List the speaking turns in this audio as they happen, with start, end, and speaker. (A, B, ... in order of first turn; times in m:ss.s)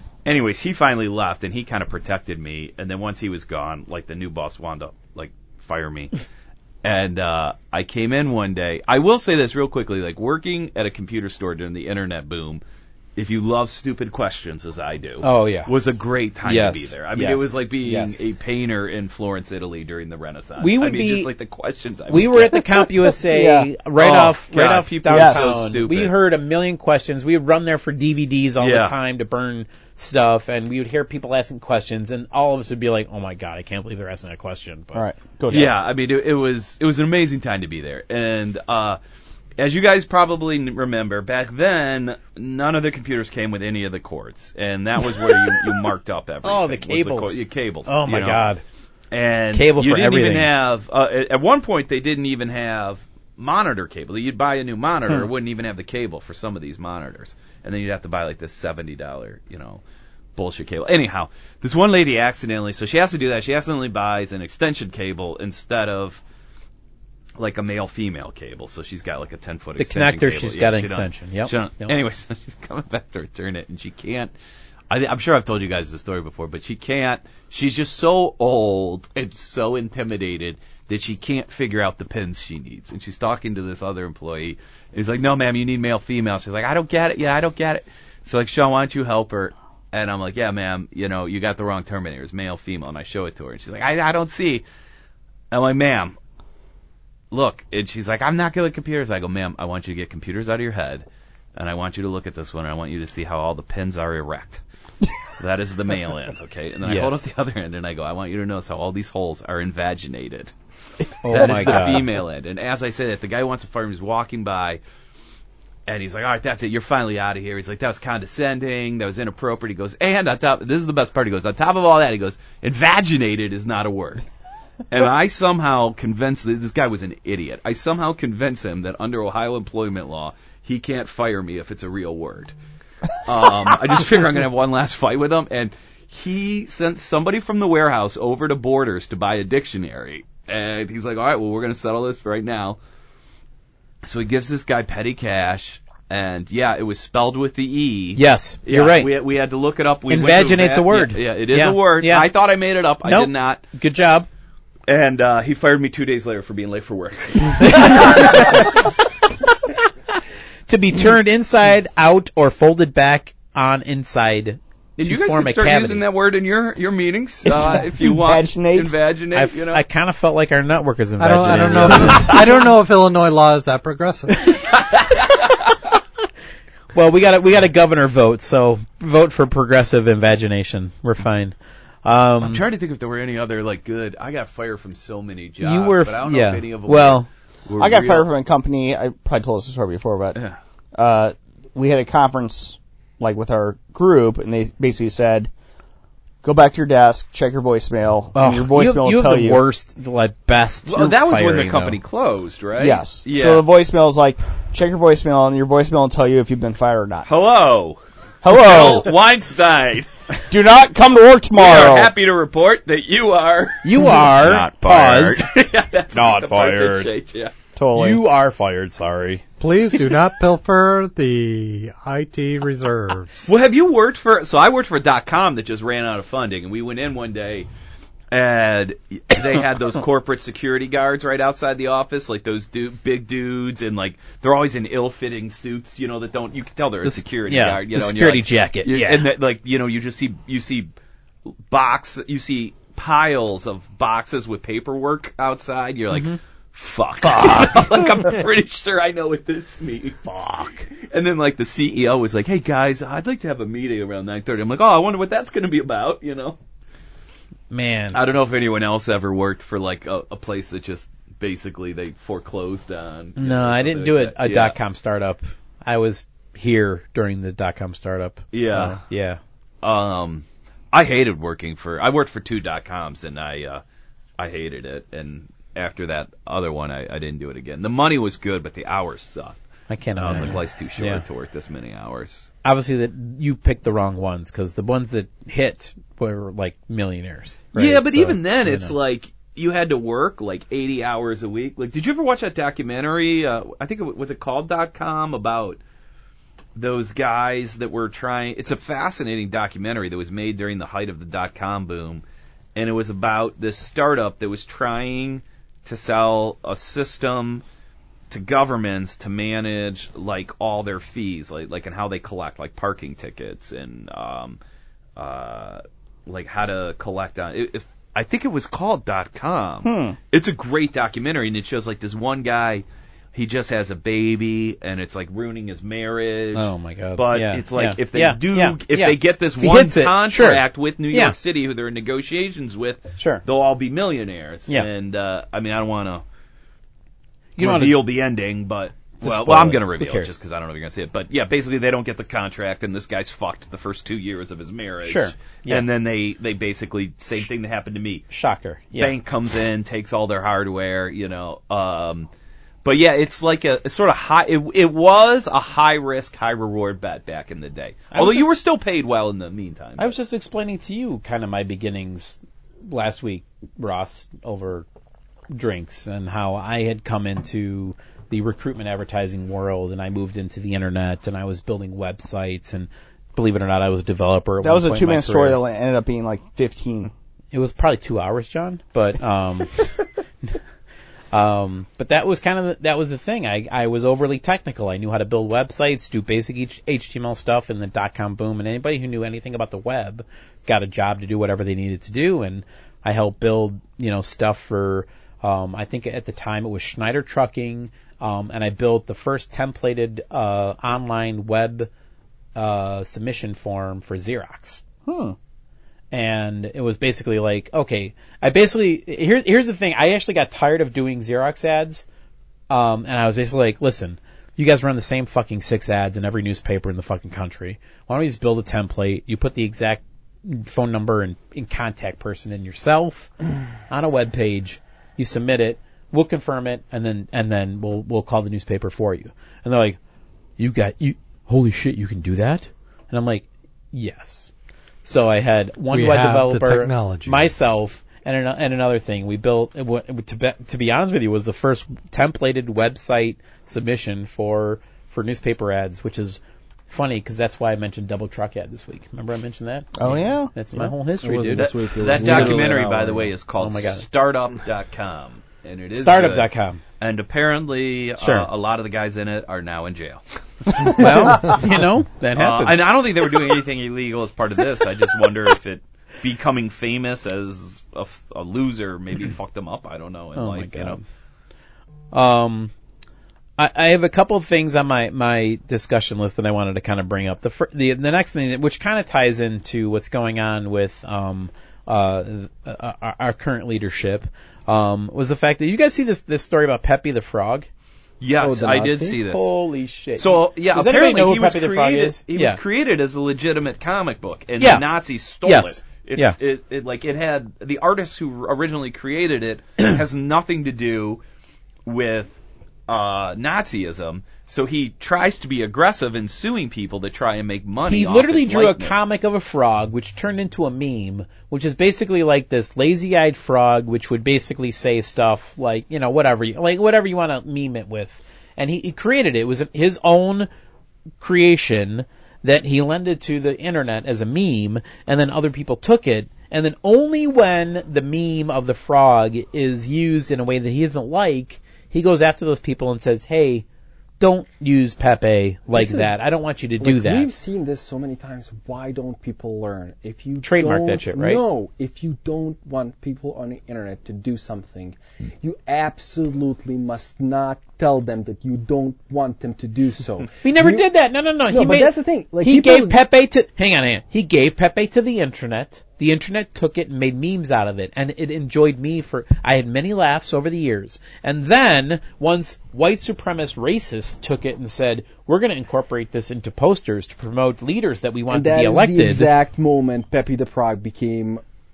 0:00.2-0:06.1 A
0:06.8-0:12.6 A
0:13.2-0:22.6 A
0:15.2-0:15.7 B
0:16.4-0:18.3 B
0:20.6-0:21.3 B
0:22.1-0:35.0 B
0:23.2-0:23.7 C
0:24.0-0:26.1 A
0:25.1-0:25.6 C
0:28.6-0:29.0 A
0:34.9-0:35.7 C
0:35.5-0:39.0 A
0:39.6-0:48.4 A
0:46.4-0:48.6 B
0:49.1-0:59.8 A
0:49.5-0:50.5 B
1:00.4-1:06.2 A
1:07.4-1:14.3 A
1:09.8-1:12.0 B
1:14.9-1:34.6 A
1:35.5-1:36.2 A
1:37.3-1:44.6 A
1:45.4-1:50.5 A
1:46.8-1:47.2 B
1:51.2-1:52.1 B
1:51.3-1:54.8 A
1:51.5-1:51.8 C
1:55.9-2:04.2 A
2:04.9-2:12.5 A
2:13.2-2:22.8 A
2:24.0-2:33.6 A
2:28.2-2:29.1 B
2:30.1-2:32.3 B
2:33.0-2:34.3 B
2:34.9-2:38.8 A
2:37.7-2:38.8 B
2:40.7-2:46.0 B
2:45.0-2:49.8 A
2:47.5-2:48.9 C
2:49.3-2:52.5 B
2:51.2-2:54.6 D
2:51.6-2:52.4 A
2:54.9-2:55.4 A
2:56.9-3:01.5 B
3:02.0-3:02.6 B
3:02.4-3:08.3 A
3:05.6-3:07.3 B
3:07.8-3:10.4 C
3:11.0-3:15.5 C
3:16.4-3:19.6 C
3:18.3-3:22.0 B
3:20.9-3:23.6 A
3:22.8-3:27.3 C
3:27.3-3:30.1 A
3:28.4-3:29.1 C
3:30.5-3:32.1 C
3:31.6-3:37.5 A
3:33.8-3:35.5 B
3:36.1-3:37.1 B
3:37.8-3:38.2 C
3:38.0-3:39.4 B
3:39.6-3:43.5 D
3:43.5-3:47.7 A
3:48.3-4:00.9 A
3:57.0-3:59.3 B
4:01.7-4:16.6 A
4:06.1-4:06.4 B
4:07.2-4:07.8 B
4:10.2-4:10.9 B
4:17.7-4:18.2 B
4:18.1-4:24.8 A
4:23.4-4:29.4 B
4:28.5-4:29.0 A
4:29.8-4:33.8 A
4:34.4-4:39.6 A
4:39.9-4:41.2 B
4:40.2-4:42.5 A
4:42.6-4:49.0 B
4:47.7-4:55.8 A
4:56.8-5:02.2 A
5:02.8-5:07.6 A
5:08.3-5:14.6 A
5:15.2-5:36.2 A
5:19.8-5:20.2 C
5:26.6-5:31.4 B
5:33.2-5:33.4 B
5:37.6-5:38.0 B
5:37.6-5:48.3 A
5:39.2-5:40.4 B
5:45.0-5:45.9 B
5:48.3-5:49.2 B
5:49.0-5:52.3 A
5:52.8-6:00.1 A
5:58.1-5:58.5 B
6:00.0-6:04.9 B
6:05.5-6:15.6 B
6:14.6-6:17.1 C
6:17.5-6:19.9 B
6:21.3-6:41.9 B
6:42.6-6:44.8 B
6:45.1-6:45.4 C
6:46.1-6:52.0 B
6:52.7-7:03.3 B
7:03.9-7:10.0 B
7:10.6-7:14.5 B
7:15.0-7:34.0 B
7:15.9-7:17.5 D
7:30.0-7:30.5 C
7:31.2-7:33.3 E
7:31.6-7:41.0 A
7:35.9-7:36.8 B
7:38.2-7:38.5 B
7:40.8-7:42.8 B
7:42.4-7:51.0 A
7:50.4-7:51.0 B
7:52.1-7:52.7 B
7:53.6-8:07.7 B
8:08.2-8:09.5 A
8:08.4-8:09.2 E
8:09.2-8:12.6 B
8:10.2-8:21.2 A
8:14.6-8:14.9 B
8:15.4-8:16.4 B
8:21.9-8:29.0 A
8:27.8-8:40.5 B
8:41.2-8:53.6 B
8:54.2-8:57.3 B
8:55.7-8:56.1 E
8:56.8-9:10.9 E
9:00.4-9:01.4 B
9:10.4-9:29.3 B
9:11.5-9:13.0 E
9:28.3-9:31.4 E